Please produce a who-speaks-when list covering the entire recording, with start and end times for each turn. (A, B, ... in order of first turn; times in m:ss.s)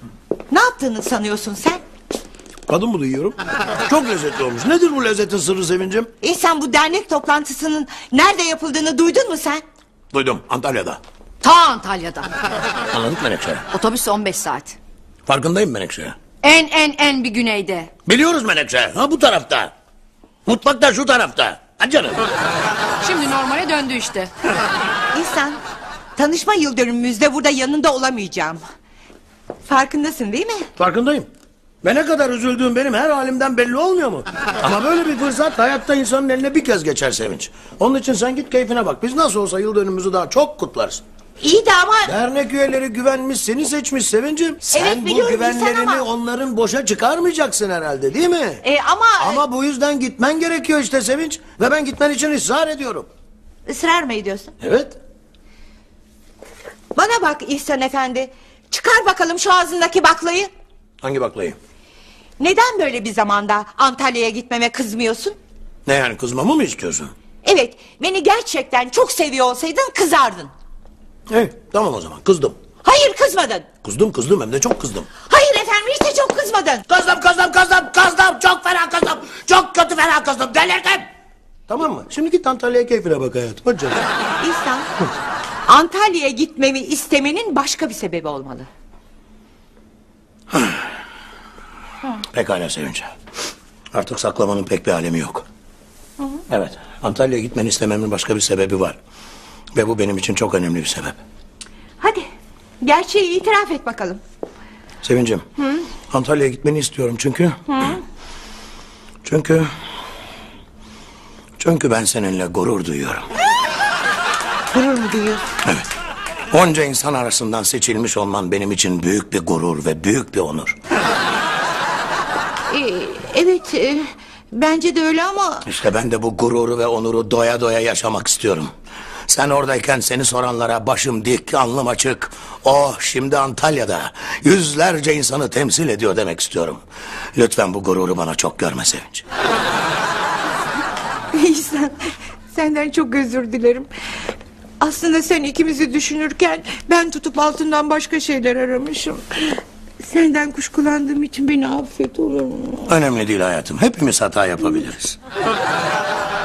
0:00.5-0:01.8 A
0:02.7-0:06.1 B
0:06.2-0:09.6 A
0:10.1-0:11.0 B
0:11.4-0:12.3 C
0:12.9-0:13.7 B
0:13.7-0:14.8 C
0:15.3-0:16.2 B
0:16.4-0:17.9 C
0:18.1-0:19.7 B
0:20.5-0:22.3 B
0:23.0-0:24.3 C
0:25.1-0:25.6 A
0:26.2-0:28.6 A
0:29.7-0:30.7 A
0:30.8-0:31.3 B
0:31.8-0:41.0 B
0:41.4-0:42.1 A
0:42.1-0:48.6 B
0:44.7-0:46.0 A
0:48.6-0:49.4 A
0:49.2-0:53.1 B
0:53.7-0:54.5 A
0:54.6-0:55.0 B
0:57.0-1:00.5 A
1:01.0-1:01.6 B
1:02.4-1:05.4 A
1:05.9-1:07.1 B
1:07.4-1:10.5 A
1:11.3-1:12.6 B
1:12.8-1:13.7 A
1:13.8-1:15.1 B
1:15.3-1:16.8 A
1:16.9-1:21.1 B
1:21.7-1:24.1 B
1:24.4-1:24.9 A
1:25.7-1:28.7 A
1:30.5-1:30.8 B
1:32.3-1:33.1 B
1:33.9-1:35.4 B
1:36.5-1:39.0 B
1:39.8-1:41.2 B
1:42.0-1:42.3 A
1:42.8-1:44.2 A
1:45.0-1:45.4 B
1:45.6-1:45.8 A
1:46.1-1:48.0 B
1:47.7-1:48.0 A
1:49.2-1:49.7 B
1:51.6-1:53.3 B
1:54.7-1:55.4 A
1:56.5-2:00.8 B
2:02.7-2:05.7 A
2:05.7-2:08.7 B
2:09.3-2:16.8 B
2:17.4-2:19.2 B
2:21.3-2:23.9 A
2:24.8-2:32.9 A
2:32.9-2:35.2 B